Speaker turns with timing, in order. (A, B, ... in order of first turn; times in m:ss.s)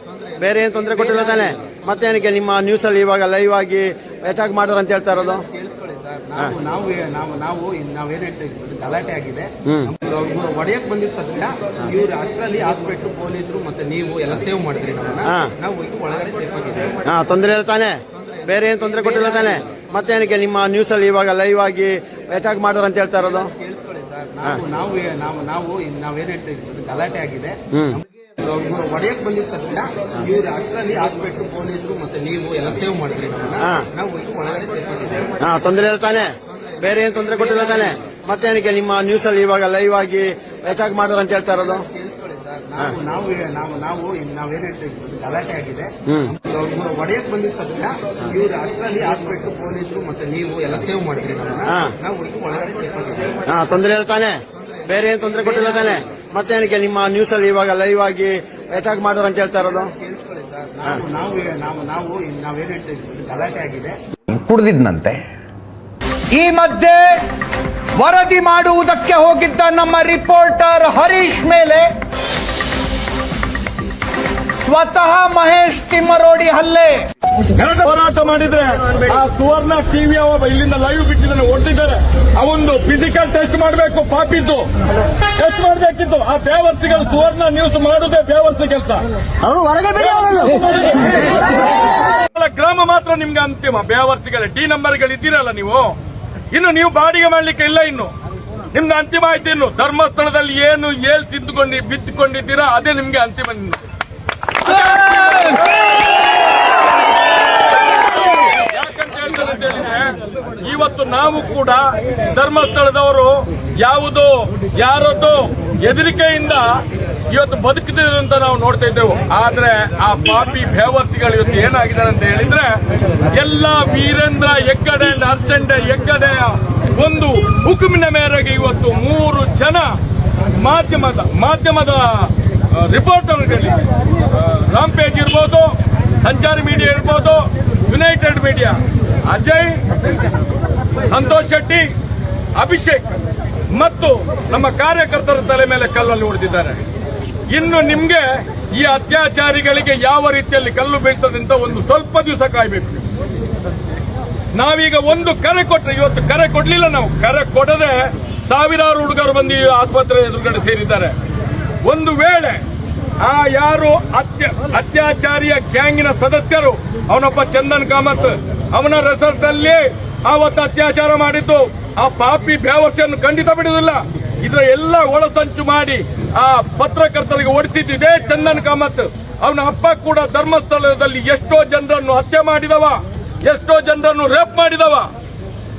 0:00.4-0:05.4 A
0:00.9-0:01.4 B
0:05.1-0:17.0 B
0:17.0-0:17.9 A
0:18.5-0:23.5 A
0:19.0-0:19.4 B
0:23.1-0:35.4 B
0:35.4-0:36.3 A
0:36.8-0:41.8 A
0:37.4-0:37.8 B
0:41.7-0:53.4 B
0:53.5-0:54.4 A
0:54.9-0:59.9 A
0:59.5-1:03.9 B
1:04.3-1:05.2 A
1:06.3-1:07.2 C
1:08.0-1:11.9 C
1:14.5-1:17.0 C
1:17.5-1:24.7 D
1:25.4-1:29.1 D
1:32.3-1:36.0 D
1:36.5-1:38.1 D
1:38.7-1:43.8 D
1:44.6-1:45.6 D
1:48.4-1:56.8 D
1:57.3-2:02.7 D
2:03.3-2:09.9 D
2:10.6-2:13.8 D
2:14.3-2:15.7 D
2:16.2-2:19.8 D
2:21.1-2:21.8 D
2:22.6-2:23.0 D
2:23.7-2:26.8 D
2:27.5-2:33.0 D
2:34.5-2:41.1 D
2:41.8-2:42.6 D
2:43.2-3:05.1 D